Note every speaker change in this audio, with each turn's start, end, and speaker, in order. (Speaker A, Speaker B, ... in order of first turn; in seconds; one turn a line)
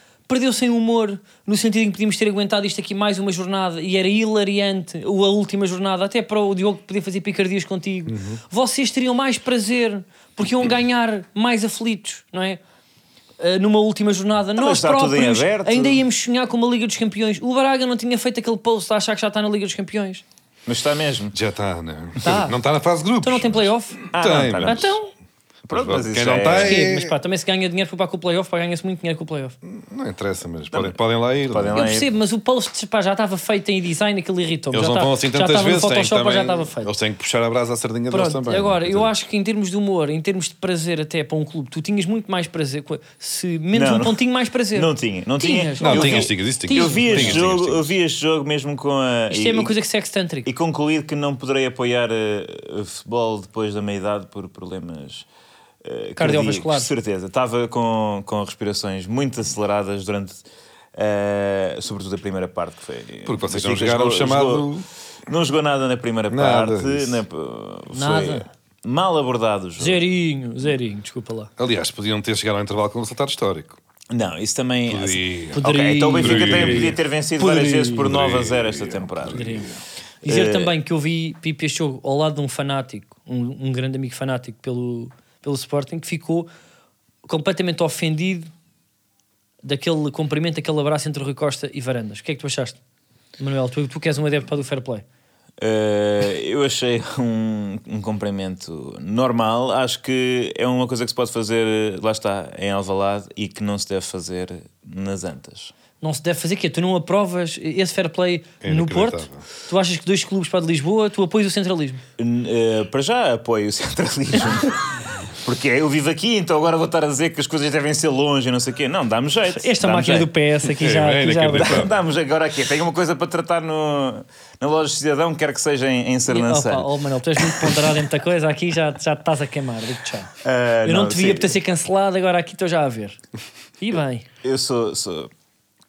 Speaker A: 0.3-12.6
Speaker B: 8.1-8.4
Speaker A: 13.4-20.2
Speaker C: 14.6-16.0
Speaker C: 20.7-21.4
Speaker B: 21.3-25.0
Speaker A: 22.2-22.6
Speaker A: 23.2-24.0
Speaker C: 24.1-24.9
Speaker A: 24.7-25.1
Speaker B: 25.7-27.1
Speaker C: 25.7-26.8
Speaker A: 26.6-29.6
Speaker B: 29.6-31.9
Speaker C: 30.7-32.1
Speaker A: 31.8-36.9
Speaker B: 34.7-39.1
Speaker A: 38.1-47.5
Speaker C: 43.7-49.7
Speaker B: 45.8-47.9
Speaker A: 49.3-50.5
Speaker C: 50.5-55.3
Speaker C: 55.8-60.4
Speaker A: 56.2-56.9
Speaker C: 61.0-64.7
Speaker B: 63.3-64.9
Speaker C: 65.3-70.0
Speaker B: 66.3-67.2
Speaker A: 67.9-68.5
Speaker A: 69.8-71.5
Speaker B: 71.6-73.8
Speaker C: 74.1-79.5
Speaker B: 74.9-75.7
Speaker A: 75.5-78.0
Speaker B: 76.2-77.0
Speaker B: 77.9-79.8
Speaker A: 79.3-79.7
Speaker C: 80.2-80.7
Speaker A: 80.2-86.5
Speaker A: 87.3-88.5
Speaker A: 89.6-92.8
Speaker A: 93.4-95.0
Speaker C: 95.6-105.7
Speaker A: 106.0-112.0
Speaker B: 108.6-109.4
Speaker C: 112.2-120.3
Speaker A: 119.6-121.8
Speaker B: 120.8-121.9
Speaker C: 121.6-128.0
Speaker A: 126.3-130.3
Speaker C: 130.4-131.6
Speaker A: 130.8-133.2
Speaker A: 133.8-134.2
Speaker C: 134.4-135.3